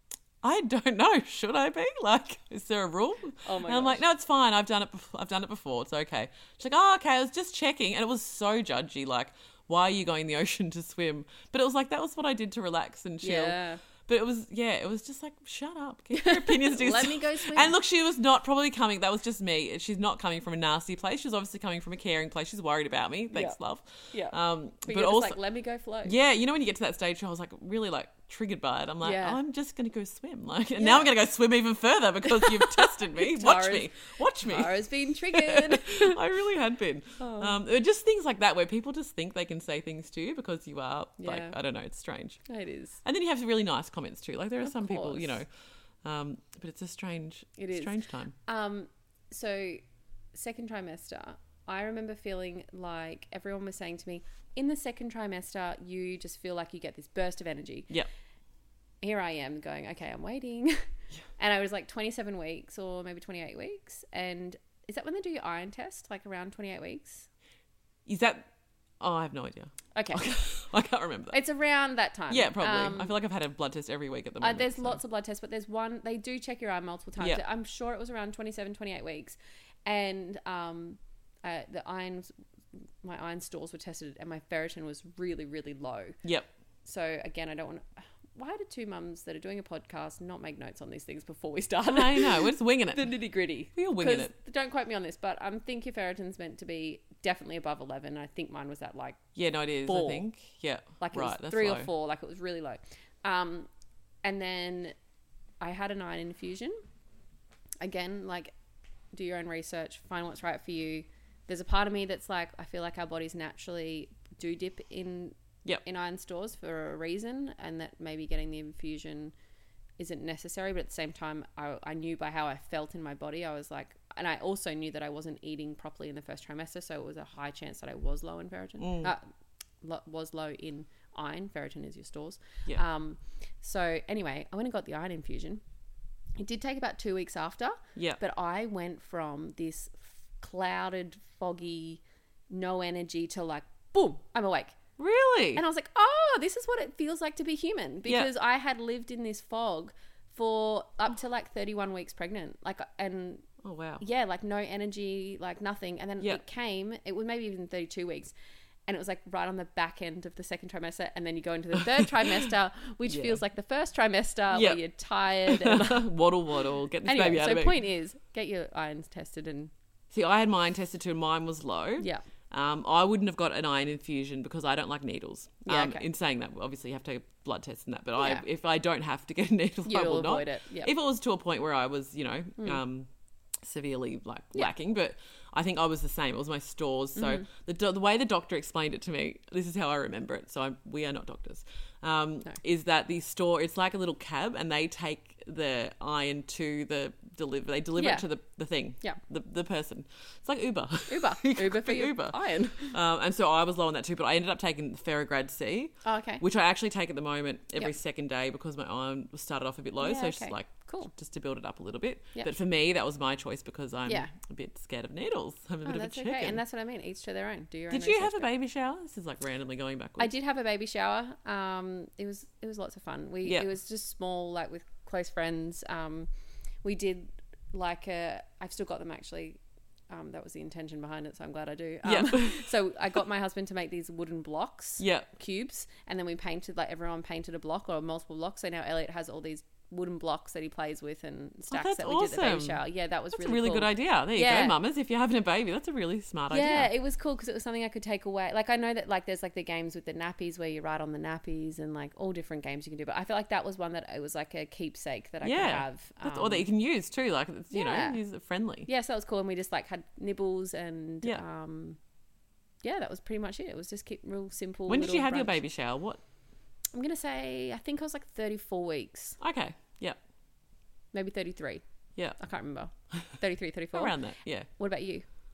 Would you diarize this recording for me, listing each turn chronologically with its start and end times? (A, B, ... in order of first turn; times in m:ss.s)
0:00.4-0:25.4 A
0:03.4-0:04.0 B
0:13.2-0:13.8 B
0:16.1-0:17.7 B
0:24.1-0:26.1 B
0:26.0-0:42.4 A
0:29.0-0:29.4 B
0:30.8-0:31.1 B
0:32.2-0:36.2 B
0:37.2-0:37.6 B
0:41.2-0:41.6 B
0:42.5-0:43.0 B
0:43.0-0:45.5 A
0:44.6-0:45.4 B
0:46.0-0:48.3 A
0:47.6-0:47.9 B
0:48.4-0:49.8 B
0:50.3-0:57.9 B
0:59.0-1:00.8 B
1:01.4-1:07.3 B
1:08.0-1:08.5 A
1:09.0-1:11.4 A
1:09.9-1:10.3 B
1:11.3-1:13.1 B
1:12.3-1:15.0 A
1:14.4-1:22.3 B
1:23.0-1:26.2 B
1:26.2-1:26.5 A
1:26.8-1:27.8 B
1:28.3-1:39.2 B
1:31.8-1:33.1 A
1:33.8-1:34.3 A
1:39.3-1:41.9 A
1:39.8-1:40.2 B
1:41.0-1:43.7 B
1:44.2-1:44.9 B
1:45.6-1:46.8 B
1:47.8-1:48.5 B
1:49.1-1:59.3 B
2:00.0-2:09.2 B
2:08.8-2:09.1 A
2:09.8-2:15.6 B
2:16.4-2:24.8 B
2:25.0-2:25.6 A
2:25.5-2:33.4 B
2:28.0-2:28.3 A
2:33.6-2:34.0 A
2:34.0-2:38.3 B
2:38.9-2:46.1 B
2:43.1-2:43.4 A
2:44.5-2:44.8 A
2:45.4-2:47.8 A
2:47.0-2:49.7 B
2:50.1-3:03.1 A
2:55.6-2:56.0 B
2:58.2-2:58.4 B
2:59.8-3:00.9 B
3:03.6-3:36.6 A
3:07.2-3:07.5 B
3:18.0-3:18.2 B
3:21.1-3:23.0 B
3:26.0-3:26.4 B
3:30.0-3:31.1 B
3:35.8-3:38.5 B
3:37.9-3:40.3 A
3:40.2-3:46.3 B
3:46.8-4:04.7 B
3:52.0-3:52.7 A
3:55.0-3:55.3 A
4:01.7-4:02.8 A
4:03.3-4:06.9 A
4:06.5-4:16.7 B
4:15.4-4:18.9 A
4:17.7-4:18.2 B
4:18.8-4:22.0 B
4:22.8-4:25.6 B
4:24.9-4:26.2 A
4:26.9-4:29.4 B
4:29.4-4:30.2 A
4:31.1-4:31.8 B
4:32.4-4:34.2 B
4:33.9-4:34.7 A
4:34.8-4:35.2 B